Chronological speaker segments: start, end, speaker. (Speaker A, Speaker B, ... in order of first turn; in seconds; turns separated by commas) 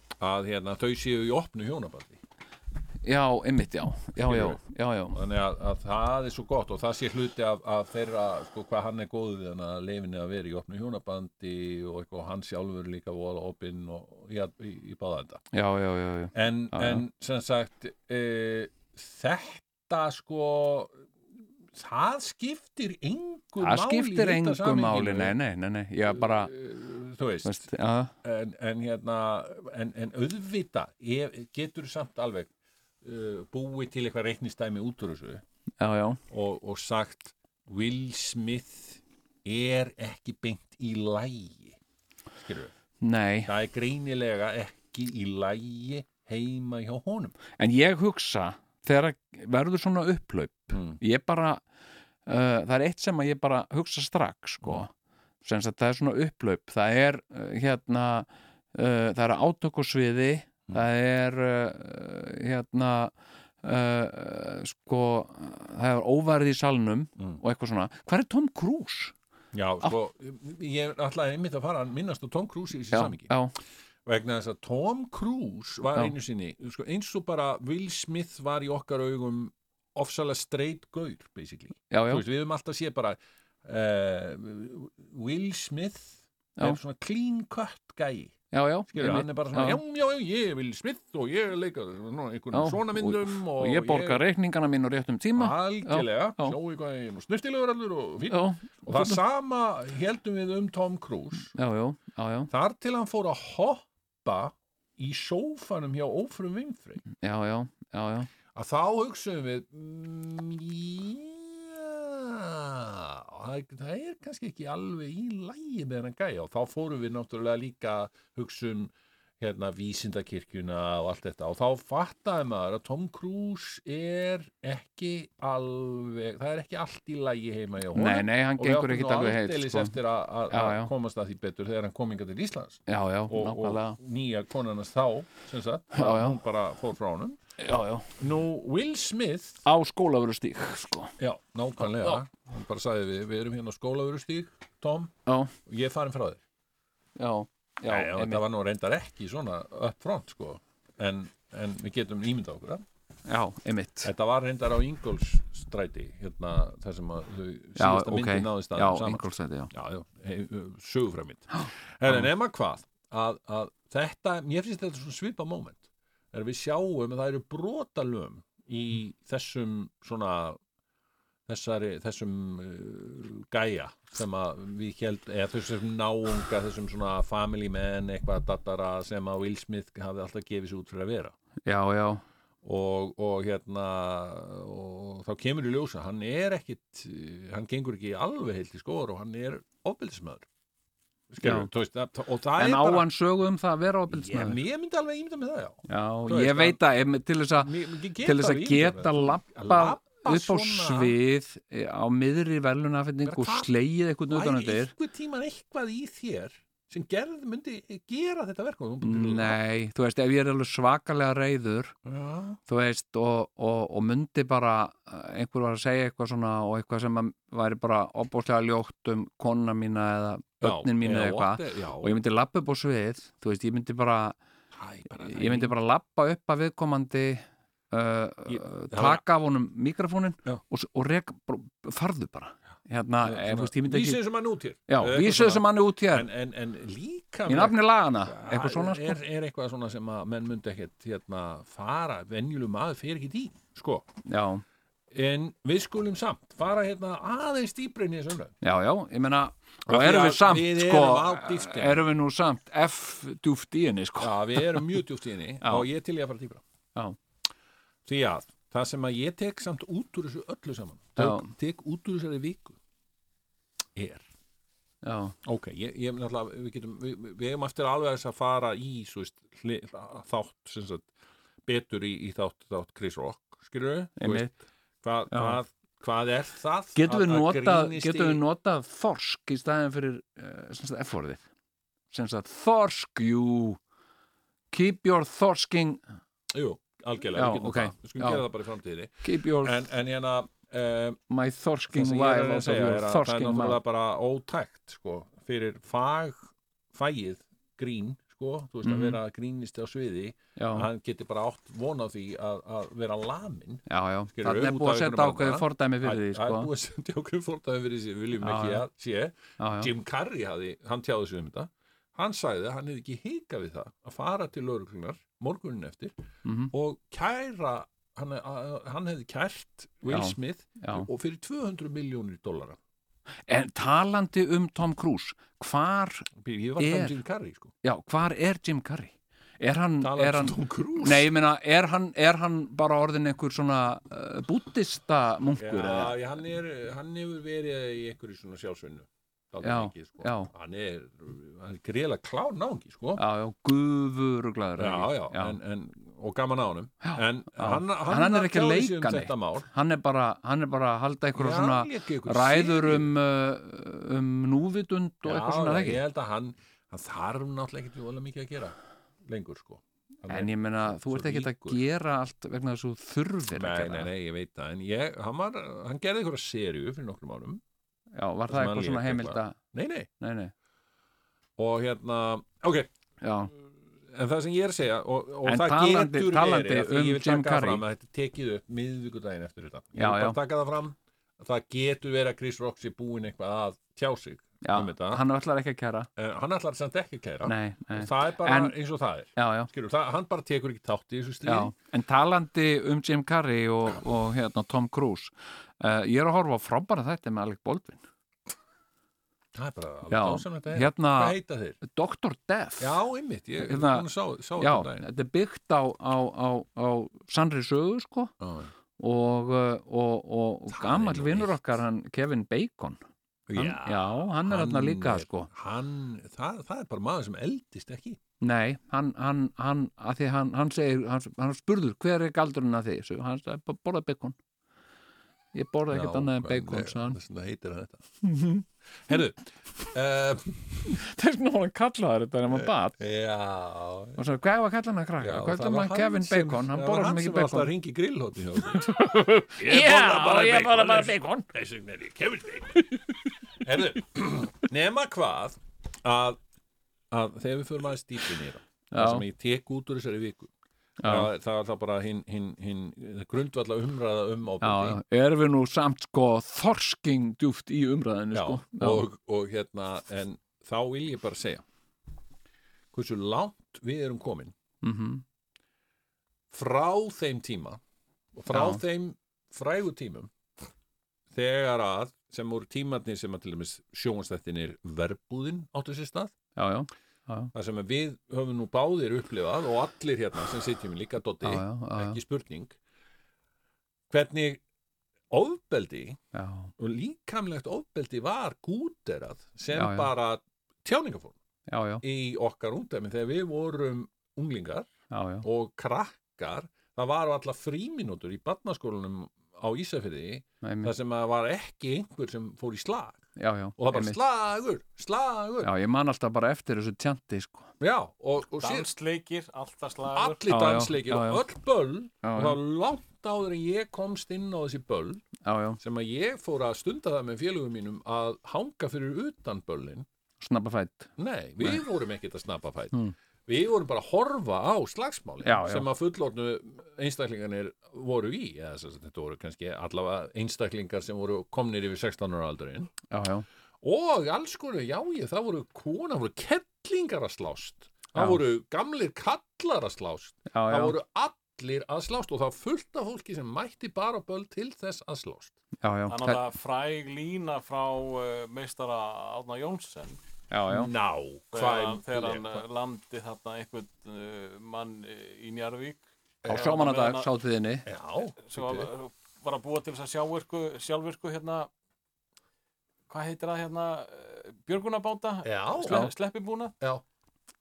Speaker A: 0.2-2.2, Speaker B: 3.0-5.2, Speaker A: 4.2-4.6, Speaker A: 5.1-15.4, Speaker B: 15.5-17.0, Speaker A: 16.3-21.0, Speaker A: 21.7-25.3, Speaker B: 23.6-26.5, Speaker A: 26.1-27.6, Speaker B: 27.4-28.1, Speaker A: 28.2-35.4, Speaker B: 35.8-36.2, Speaker A: 36.3-41.8, Speaker A: 42.4-42.7, Speaker B: 43.0-43.5, Speaker A: 43.5-47.4, Speaker B: 47.6-51.6, Speaker A: 50.7-51.0, Speaker B: 52.2-54.9, Speaker B: 55.4-69.1, Speaker A: 69.5-73.3, Speaker B: 72.9-73.5, Speaker A: 74.0-88.4, Speaker B: 81.9-82.2, Speaker B: 88.5-89.8, Speaker A: 88.9-94.2, Speaker B: 92.5-96.6, Speaker A: 95.3-101.5, Speaker B: 98.3-99.2, Speaker B: 101.5-102.5, Speaker A: 102.5-107.0, Speaker B: 107.1-108.3, Speaker A: 108.5-137.4, Speaker B: 127.9-129.9, Speaker B: 130.5-130.9, Speaker B: 132.9-134.0, Speaker B: 135.9-136.4, Speaker B: 137.6-138.1, Speaker A: 138.2-139.6, Speaker B: 139.6-141.1, Speaker A: 141.2-145.1, Speaker B: 141.8-142.2, Speaker B: 145.2-145.5, Speaker A: 145.6-146.4, Speaker B: 147.2-148.4, Speaker A: 147.9-152.8, Speaker B: 153.3-154.1, Speaker A: 154.0-170.6, Speaker B: 157.8-159.7, Speaker A: 171.5-181.3, Speaker B: 181.7-182.2, Speaker A: 182.6-190.5, Speaker A: 191.3-193.1, Speaker B: 191.4-191.7, Speaker B: 192.6-194.6, Speaker A: 194.1-196.8, Speaker B: 195.9-204.9, Speaker A: 197.6-201.2, Speaker A: 203.2-203.7, Speaker A: 204.3-209.6, Speaker B: 209.0-211.9, Speaker A: 212.0-212.6, Speaker B: 212.7-224.3, Speaker A: 220.6-222.1, Speaker A: 224.7-225.8, Speaker B: 225.2-234.2, Speaker A: 228.5-229.2, Speaker A: 233.2-244.1, Speaker B: 234.9-236.3, Speaker B: 237.5-239.2, Speaker B: 244.2-244.6, Speaker A: 245.1-248.6, Speaker B: 248.6-255.0, Speaker A: 249.8-252.0, Speaker A: 254.2-256.6, Speaker A: 258.0-262.8, Speaker B: 261.2-261.5, Speaker A: 263.9-264.2, Speaker B: 265.0-265.3, Speaker A: 265.4-271.1, Speaker A: 271.6-278.4, Speaker B: 274.2-274.5, Speaker B: 275.3-275.6, Speaker B: 276.9-281.4, Speaker B: 282.1-283.8, Speaker B: 284.7-286.0, Speaker A: 286.5-291.2, Speaker B: 287.4-288.4, Speaker B: 289.2-289.8, Speaker B: 291.3-293.8, Speaker A: 291.9-316.1, Speaker B: 298.8-299.2, Speaker B: 300.6-300.9, Speaker B: 303.9-306.7, Speaker B: 308.4-308.9, Speaker B: 309.6-309.9, Speaker B: 316.4-316.7, Speaker A: 316.7-322.8, Speaker B: 320.1-321.1, Speaker B: 323.5-327.2, Speaker A: 326.4-327.7, Speaker B: 327.8-336.1, Speaker A: 330.0-331.3, Speaker A: 335.6-343.2, Speaker B: 339.6-340.5, Speaker B: 343.2-345.6, Speaker A: 344.8-349.7, Speaker B: 347.0-356.0, Speaker A: 351.3-353.1, Speaker A: 355.2-361.8, Speaker B: 360.3-364.1, Speaker A: 363.5-367.6, Speaker B: 368.1-369.6, Speaker A: 368.5-370.1, Speaker B: 370.2-370.5, Speaker A: 371.6-372.9, Speaker B: 373.2-373.5, Speaker A: 374.1-385.2, Speaker B: 375.4-377.8, Speaker B: 379.9-380.4, Speaker B: 384.6-386.1, Speaker A: 386.2-391.7, Speaker B: 387.4-388.7, Speaker B: 389.4-389.7, Speaker B: 391.4-398.0, Speaker A: 399.5-401.8, Speaker B: 400.1-403.0, Speaker A: 402.8-405.1, Speaker B: 403.6-408.3, Speaker A: 408.4-408.7, Speaker B: 409.0-413.0, Speaker A: 410.7-411.6, Speaker A: 413.5-418.2, Speaker B: 413.5-415.5, Speaker B: 418.4-424.4, Speaker B: 425.5-427.2, Speaker A: 425.9-428.1, Speaker B: 428.2-428.6, Speaker A: 429.1-431.0, Speaker B: 430.9-433.0, Speaker A: 432.5-434.2, Speaker B: 434.2-437.7, Speaker A: 435.2-443.0, Speaker B: 438.7-441.4, Speaker A: 443.6-446.4, Speaker A: 447.1-450.5, Speaker B: 448.9-449.2, Speaker B: 451.0-451.3, Speaker A: 451.0-455.0, Speaker B: 454.6-459.1, Speaker A: 458.3-461.6, Speaker A: 462.9-464.5, Speaker B: 464.8-465.2, Speaker A: 466.5-467.8, Speaker A: 468.3-470.3, Speaker B: 468.5-468.8, Speaker A: 471.3-476.3, Speaker B: 476.6-477.5, Speaker A: 477.5-482.8, Speaker B: 481.4-482.2, Speaker A: 484.1-484.6, Speaker A: 485.3-486.2, Speaker B: 486.3-486.7, Speaker A: 486.8-491.4, Speaker B: 489.7-490.1, Speaker B: 491.7-492.0, Speaker A: 492.0-494.9, Speaker B: 495.1-495.4, Speaker A: 495.4-503.2, Speaker B: 500.6-500.9, Speaker B: 503.4-504.2, Speaker A: 503.8-505.7, Speaker B: 505.6-507.7, Speaker A: 507.8-508.9, Speaker C: 508.6-510.4, Speaker A: 510.1-515.2, Speaker B: 510.5-511.4, Speaker B: 512.2-512.6, Speaker B: 515.4-515.8, Speaker A: 515.8-520.1, Speaker B: 520.4-521.8, Speaker A: 521.2-532.9, Speaker B: 525.4-525.9, Speaker B: 533.1-533.5, Speaker A: 533.8-545.5, Speaker B: 538.1-538.4, Speaker B: 540.5-541.0, Speaker B: 545.8-546.4, Speaker C: 546.1-550.2, Speaker B: 550.5-550.9, Speaker A: 550.7-552.6, Speaker C: 551.5-557.3, Speaker A: 556.4-556.8, Speaker B: 556.5-557.9, Speaker A: 557.9-558.9, Speaker C: 558.4-561.7, Speaker C: 563.1-566.7, Speaker A: 565.4-566.0